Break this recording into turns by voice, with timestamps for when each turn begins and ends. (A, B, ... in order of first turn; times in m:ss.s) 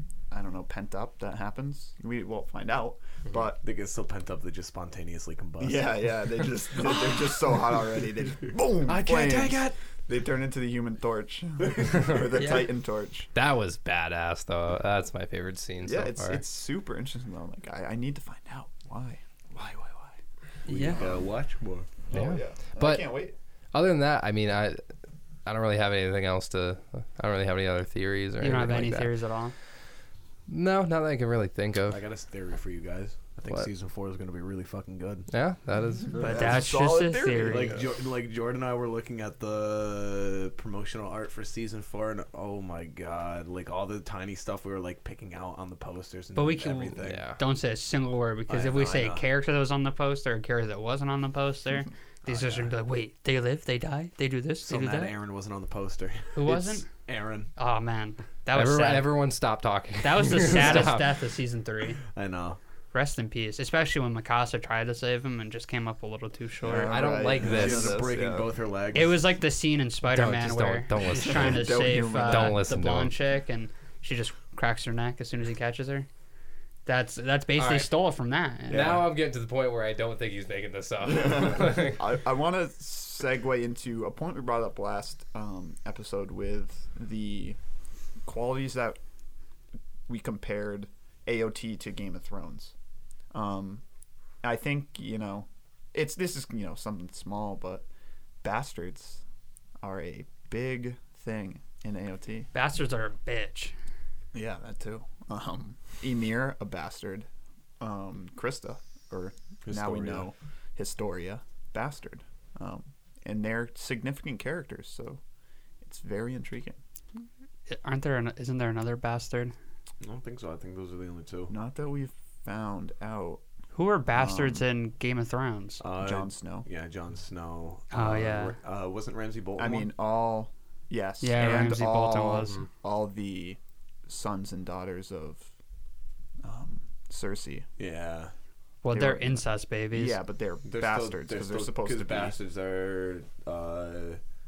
0:00.3-0:03.6 A
0:03.6-0:07.2 B
0:05.6-0:13.3 A
0:08.8-0:09.8 B
0:11.6-0:12.0 B
0:12.4-0:12.7 C
0:13.3-0:16.4 D
0:15.8-0:20.2 A
0:20.7-0:21.0 C
0:20.7-0:22.0 B
0:20.8-0:21.2 A
0:22.1-0:23.3 A
0:22.1-0:23.1 D
0:23.7-0:24.8 D
0:25.5-0:29.1 D
0:28.4-0:29.6 C
0:30.5-0:32.0 D
0:31.9-0:35.3 B
0:35.3-0:36.2 D
0:36.1-0:36.6 B
0:36.1-0:37.9 A
0:36.2-0:37.7 C
0:37.4-0:47.2 B
0:46.4-0:55.1 C
0:47.0-0:47.4 D
0:48.5-0:49.2 B
0:52.3-0:52.7 B
0:54.6-0:57.5 B
0:56.4-0:56.9 C
0:57.6-0:59.1 C
0:58.6-1:01.1 D
1:00.0-1:02.0 C
1:02.1-1:02.6 B
1:02.9-1:07.0 C
1:06.6-1:08.6 A
1:06.8-1:08.0 D
1:07.4-1:09.2 B
1:08.9-1:16.1 C
1:10.1-1:13.1 D
1:11.3-1:12.6 A
1:16.9-1:19.0 C
1:17.6-1:17.9 D
1:18.7-1:19.0 A
1:18.7-1:22.0 D
1:21.0-1:27.6 A
1:28.3-1:29.0 A
1:30.1-1:32.7 A
1:33.3-1:33.8 A
1:34.4-1:37.8 A
1:38.4-1:39.2 A
1:39.8-1:42.5 A
1:42.5-1:43.7 C
1:44.3-1:47.3 A
1:47.8-1:55.2 A
1:49.6-1:50.2 B
1:55.8-1:56.8 A
1:57.7-1:59.6 C
2:00.0-2:01.5 B
2:01.5-2:03.4 A
2:03.7-2:05.8 C
2:04.1-2:04.7 A
2:05.8-2:09.9 B
2:06.0-2:06.7 A
2:07.9-2:08.6 C
2:09.6-2:15.5 A
2:11.2-2:12.6 C
2:16.4-2:17.7 A
2:17.8-2:18.3 B
2:18.8-2:20.2 C
2:18.9-2:22.4 A
2:20.7-2:24.2 B